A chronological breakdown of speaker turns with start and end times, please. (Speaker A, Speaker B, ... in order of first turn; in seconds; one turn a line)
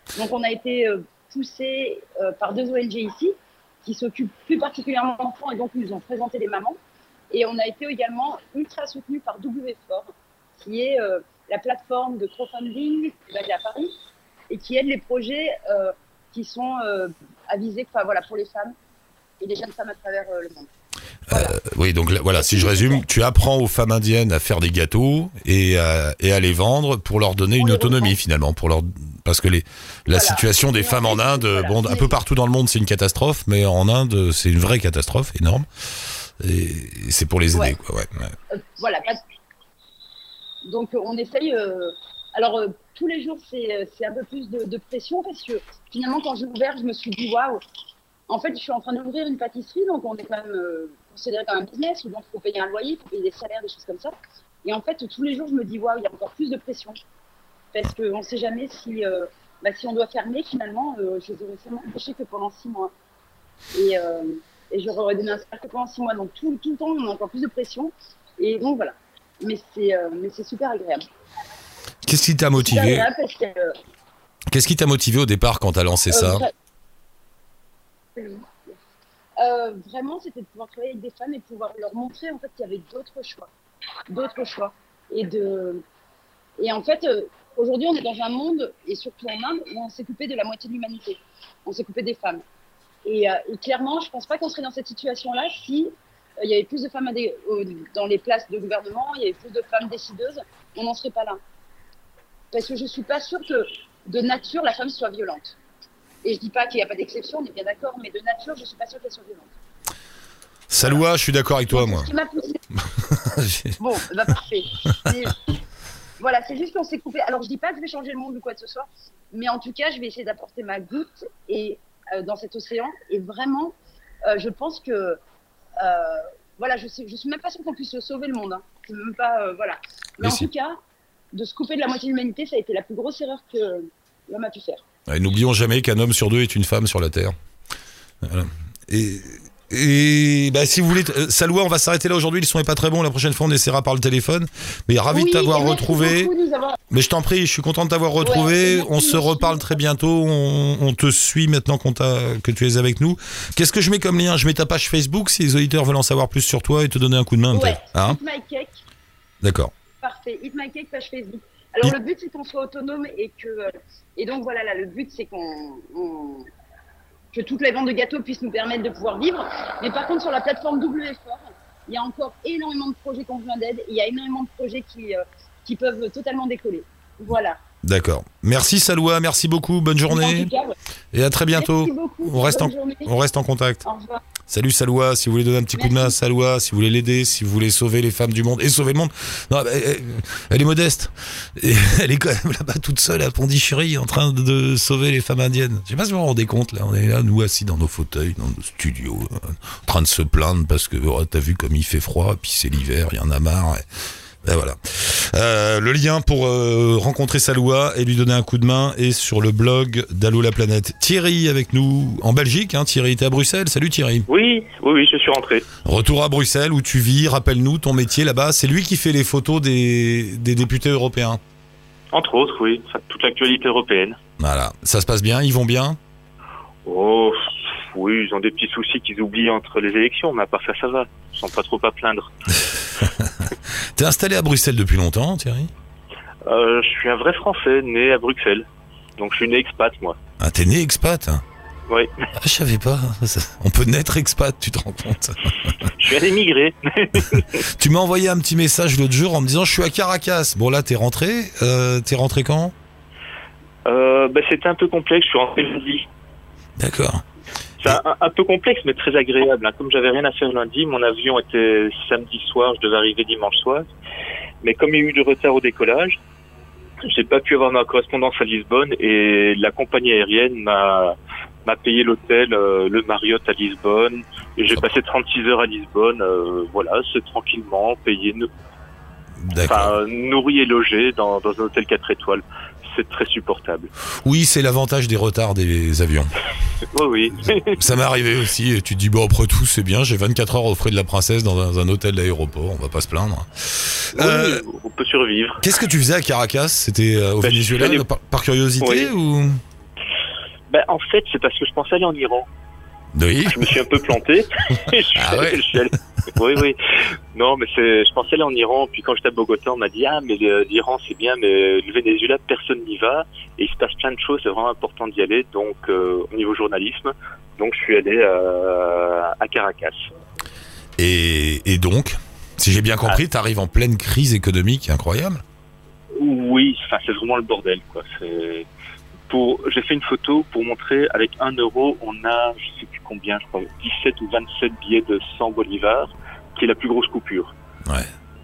Speaker A: 0.1-6.8
Speaker A: 7.3-13.9
Speaker A: 14.5-18.8
Speaker A: 19.4-20.7
Speaker B: 21.3-38.4
Speaker A: 21.3-21.5
Speaker A: 22.4-23.0
Speaker A: 27.6-28.1
Speaker A: 30.1-32.1
Speaker A: 38.5-39.2
Speaker A: 40.6-47.6
Speaker A: 48.3-57.0
Speaker A: 57.7-62.9
Speaker A: 63.7-71.1
Speaker B: 72.0-73.1
Speaker A: 72.5-73.8
Speaker B: 74.5-76.4
Speaker A: 76.1-76.5
Speaker A: 78.2-78.5
Speaker A: 79.4-83.5
Speaker A: 84.1-85.8
Speaker A: 86.6-92.4
Speaker A: 93.0-101.4
Speaker A: 102.5-105.6
Speaker A: 106.2-109.5
Speaker B: 110.7-112.1
Speaker A: 111.7-112.6
Speaker B: 113.0-113.8
Speaker A: 113.8-115.5
Speaker A: 116.2-125.2
Speaker A: 125.8-130.8
Speaker B: 130.2-130.5
Speaker A: 131.3-134.8
Speaker B: 135.1-137.3
Speaker B: 138.2-146.3
Speaker A: 145.1-146.8
Speaker B: 146.9-158.2
Speaker A: 148.2-149.7
Speaker A: 157.5-158.8
Speaker B: 159.4-159.7
Speaker A: 160.0-166.5
Speaker A: 167.3-177.6
Speaker B: 177.8-180.5
Speaker A: 180.1-180.7
Speaker B: 181.1-183.8
Speaker A: 181.5-183.1
Speaker A: 183.8-184.2
Speaker B: 184.5-203.8
Speaker A: 185.8-186.1
Speaker B: 204.4-214.2
Speaker C: 214.3-215.7
Speaker B: 215.8-221.4
Speaker C: 222.1-224.2
Speaker B: 224.4-226.0
Speaker C: 226.8-232.3
Speaker B: 233.0-235.7
Speaker C: 236.4-240.2
Speaker B: 240.4-241.4
Speaker B: 242.3-245.7
Speaker C: 245.8-247.6
Speaker B: 247.7-252.7
Speaker C: 253.8-256.1
Speaker B: 256.8-257.2
Speaker C: 257.8-263.9
Speaker C: 264.6-266.2
Speaker C: 267.0-278.5
Speaker B: 279.4-279.9
Speaker C: 279.6-283.9
Speaker B: 284.2-286.3
Speaker C: 286.9-287.9
Speaker B: 287.8-294.6
Speaker C: 294.1-295.6
Speaker B: 295.6-299.6
Speaker C: 297.4-298.1
Speaker C: 298.8-299.1
Speaker C: 300.7-302.5
Speaker B: 303.1-303.7
Speaker C: 303.5-306.8
Speaker B: 305.1-305.8
Speaker C: 307.3-320.1
Speaker B: 321.0-325.4
Speaker C: 326.2-328.7
Speaker C: 329.3-337.5